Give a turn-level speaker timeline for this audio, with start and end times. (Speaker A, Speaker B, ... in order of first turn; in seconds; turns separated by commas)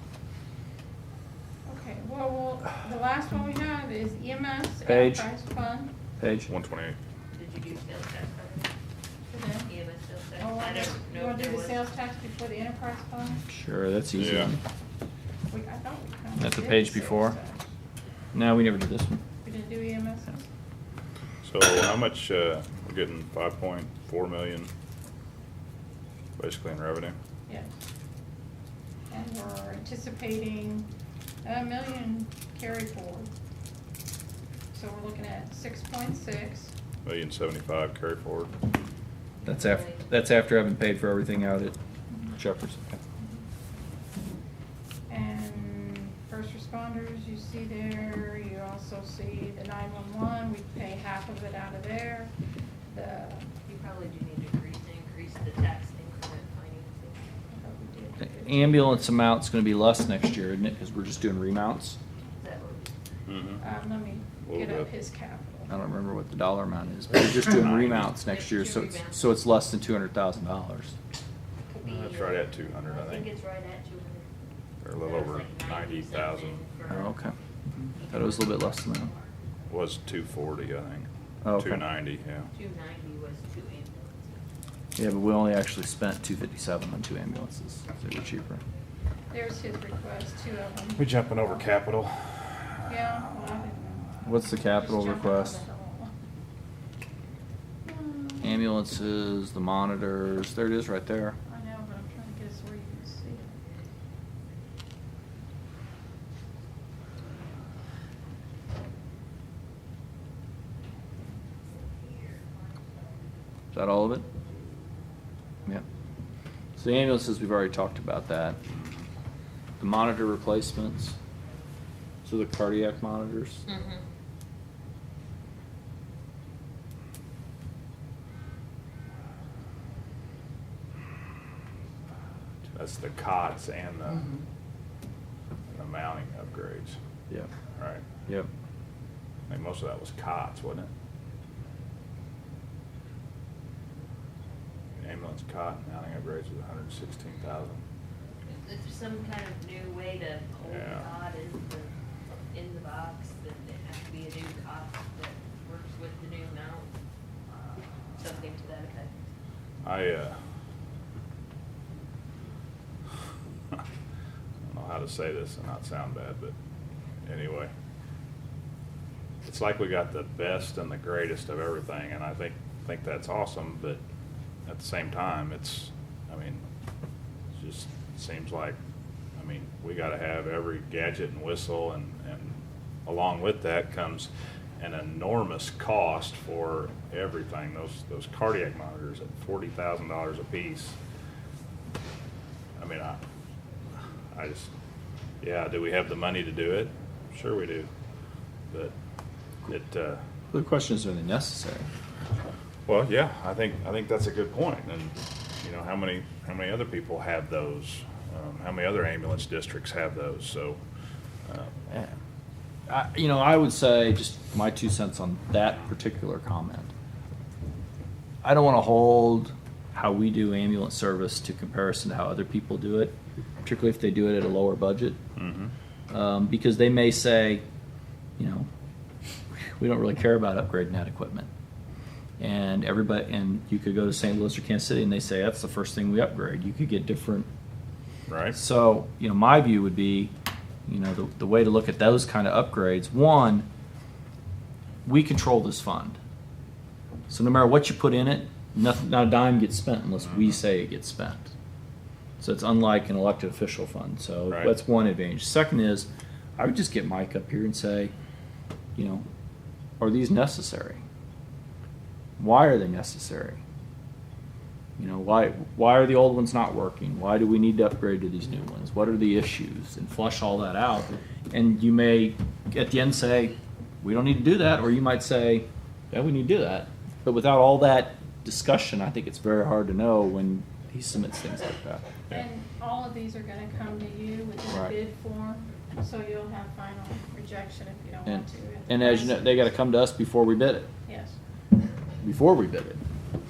Speaker A: 1.6-5.9, Speaker B: 4.8-5.3, Speaker B: 6.2-6.5, Speaker C: 6.5-7.0, Speaker D: 7.3-8.7, Speaker A: 9.3-9.7, Speaker D: 9.7-11.8, Speaker A: 10.4-13.4, Speaker B: 13.4-14.6, Speaker C: 14.1-14.5, Speaker A: 15.5-17.7, Speaker B: 16.4-17.4, Speaker B: 18.3-19.2, Speaker A: 19.4-20.4, Speaker C: 21.4-24.7, Speaker C: 26.4-27.1, Speaker A: 29.1-30.9, Speaker A: 31.4-33.3, Speaker A: 34.7-36.7, Speaker C: 37.0-38.5, Speaker B: 39.4-41.8, Speaker D: 39.5-40.1, Speaker B: 42.3-43.0, Speaker A: 45.1-52.3, Speaker A: 52.9-53.5, Speaker D: 53.6-57.3, Speaker A: 57.5-59.1, Speaker B: 58.2-62.0, Speaker D: 62.3-62.9, Speaker C: 63.3-63.6, Speaker A: 63.6-65.7, Speaker C: 64.4-64.9, Speaker B: 65.7-71.0, Speaker C: 67.6-68.1, Speaker D: 68.2-69.4, Speaker D: 71.7-74.3, Speaker C: 71.8-73.3, Speaker C: 74.8-76.6, Speaker D: 75.0-77.3, Speaker B: 76.9-77.3, Speaker D: 77.9-79.3, Speaker B: 78.1-79.1, Speaker C: 79.7-82.5, Speaker B: 81.4-81.8, Speaker D: 82.5-84.4, Speaker B: 85.0-88.6, Speaker A: 89.3-91.6, Speaker C: 91.0-92.2, Speaker A: 92.8-96.1, Speaker B: 94.2-95.6, Speaker A: 97.8-98.6, Speaker B: 98.4-101.4, Speaker A: 101.5-103.6, Speaker D: 112.1-112.4, Speaker B: 113.7-114.2, Speaker B: 116.8-118.6, Speaker B: 119.8-121.2, Speaker B: 122.2-123.6, Speaker D: 123.7-124.0, Speaker C: 132.7-134.3, Speaker C: 135.7-137.0, Speaker C: 137.8-138.0, Speaker C: 139.5-140.9, Speaker C: 145.0-147.8, Speaker D: 148.5-151.9, Speaker C: 150.6-151.1, Speaker D: 152.5-156.9, Speaker D: 158.2-159.1, Speaker C: 159.8-160.4, Speaker C: 164.7-166.5, Speaker C: 167.2-167.7, Speaker C: 169.4-174.0, Speaker C: 174.7-176.6, Speaker C: 177.6-178.8, Speaker C: 179.4-191.0, Speaker C: 192.8-193.2, Speaker C: 194.3-194.7, Speaker C: 195.4-197.9, Speaker C: 199.7-200.2, Speaker B: 200.5-201.9, Speaker C: 202.8-210.8, Speaker C: 211.5-211.7, Speaker B: 212.9-216.9, Speaker B: 218.4-225.2, Speaker C: 225.3-225.7, Speaker B: 226.1-227.6, Speaker B: 228.4-228.7, Speaker B: 229.8-231.5, Speaker B: 232.4-237.5, Speaker C: 238.3-238.6, Speaker B: 238.5-240.3, Speaker B: 240.9-243.7, Speaker B: 245.0-246.2, Speaker B: 247.3-251.5, Speaker B: 252.4-258.1, Speaker C: 254.5-254.7, Speaker B: 258.9-259.2, Speaker B: 260.0-261.0, Speaker B: 262.4-263.6, Speaker B: 265.0-282.0, Speaker A: 282.3-289.7, Speaker B: 288.2-290.9, Speaker A: 291.1-291.4, Speaker B: 292.2-293.0